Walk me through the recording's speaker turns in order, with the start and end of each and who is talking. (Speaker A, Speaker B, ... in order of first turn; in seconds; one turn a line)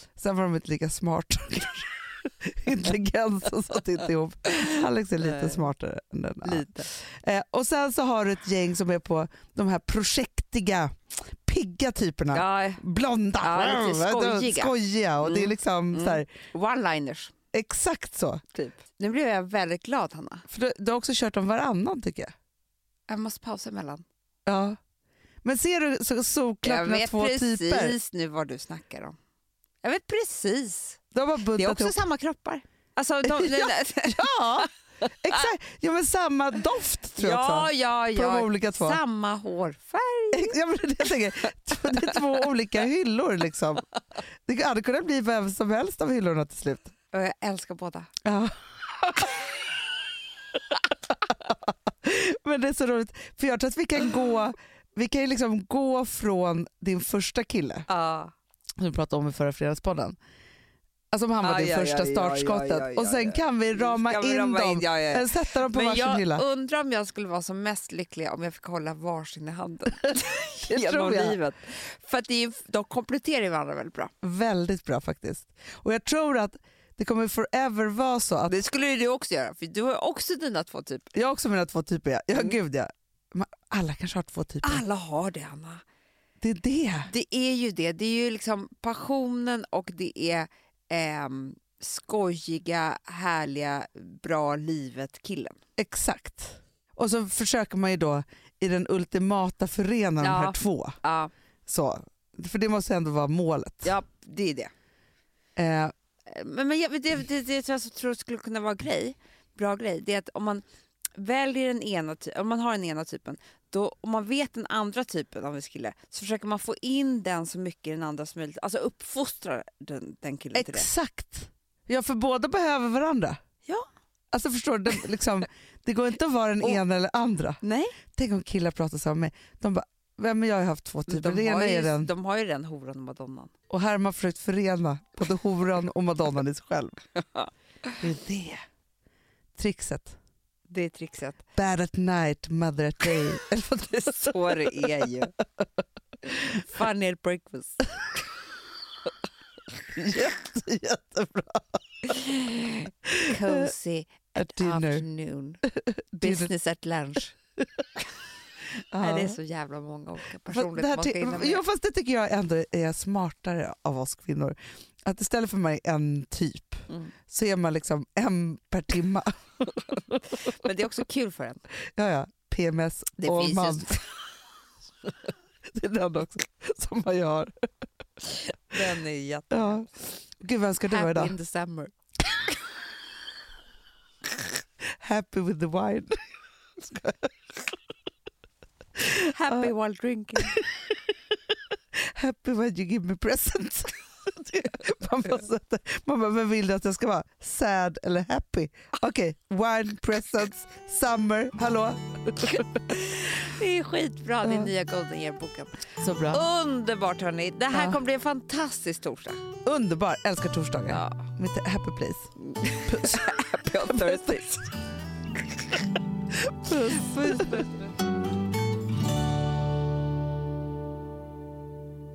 Speaker A: 0.1-16.3
Speaker B: 5.2-5.6
Speaker B: 6.4-6.9
Speaker B: 12.3-12.8
Speaker B: 13.4-17.3
Speaker A: 17.5-18.4
Speaker B: 18.5-20.4
Speaker A: 20.5-22.3
Speaker B: 23.1-24.0
Speaker A: 24.4-24.8
Speaker A: 25.4-27.9
Speaker B: 26.6-29.1
Speaker B: 29.8-34.7
Speaker A: 31.1-31.9
Speaker A: 33.2-39.0
Speaker B: 37.1-40.6
Speaker A: 40.3-43.9
Speaker A: 44.5-46.9
Speaker B: 47.1-48.1
Speaker A: 48.2-49.3
Speaker A: 51.2-57.9
Speaker B: 57.9-58.3
Speaker A: 58.8-60.2
Speaker A: 61.1-66.4
Speaker B: 61.4-74.1
Speaker A: 70.6-71.4
Speaker A: 74.2-78.6
Speaker B: 78.5-81.1
Speaker A: 81.1-84.8
Speaker B: 84.6-85.8
Speaker A: 86.4-87.1
Speaker B: 87.0-95.6
Speaker A: 95.8-101.0
Speaker B: 100.2-101.3
Speaker A: 101.7-103.9
Speaker B: 103.8-104.7
Speaker A: 105.5-105.9
Speaker B: 106.3-110.6
Speaker B: 111.2-120.9
Speaker A: 120.5-123.4
Speaker A: 124.3-127.6
Speaker B: 127.6-128.0
Speaker A: 128.1-132.1
Speaker B: 131.1-133.5
Speaker A: 133.7-137.0
Speaker A: 138.0-138.6
Speaker A: 139.6-140.2
Speaker B: 140.7-141.4
Speaker A: 141.5-144.9
Speaker B: 143.9-145.3
Speaker B: 146.3-148.2
Speaker A: 149.9-152.0
Speaker B: 152.1-155.6
Speaker A: 153.1-153.5
Speaker A: 154.3-155.1
Speaker A: 155.7-156.5
Speaker B: 156.2-157.3
Speaker A: 158.9-159.4
Speaker B: 159.0-161.6
Speaker A: 160.5-169.3
Speaker B: 170.3-171.6
Speaker A: 171.9-174.0
Speaker B: 173.2-174.1
Speaker A: 175.7-177.5
Speaker B: 178.7-180.0
Speaker A: 179.5-179.9
Speaker A: 180.4-181.3
Speaker B: 180.9-181.9
Speaker A: 185.0-186.2
Speaker A: 186.8-187.3
Speaker B: 189.0-190.6
Speaker A: 189.1-189.7
Speaker A: 190.4-202.7
Speaker B: 202.5-209.4
Speaker A: 204.4-204.7
Speaker A: 206.0-206.4
Speaker A: 207.7-208.0
Speaker A: 209.6-212.3
Speaker B: 210.9-211.2
Speaker B: 212.4-214.7
Speaker A: 212.9-213.2
Speaker A: 213.8-214.4
Speaker A: 216.4-217.6
Speaker B: 216.7-217.9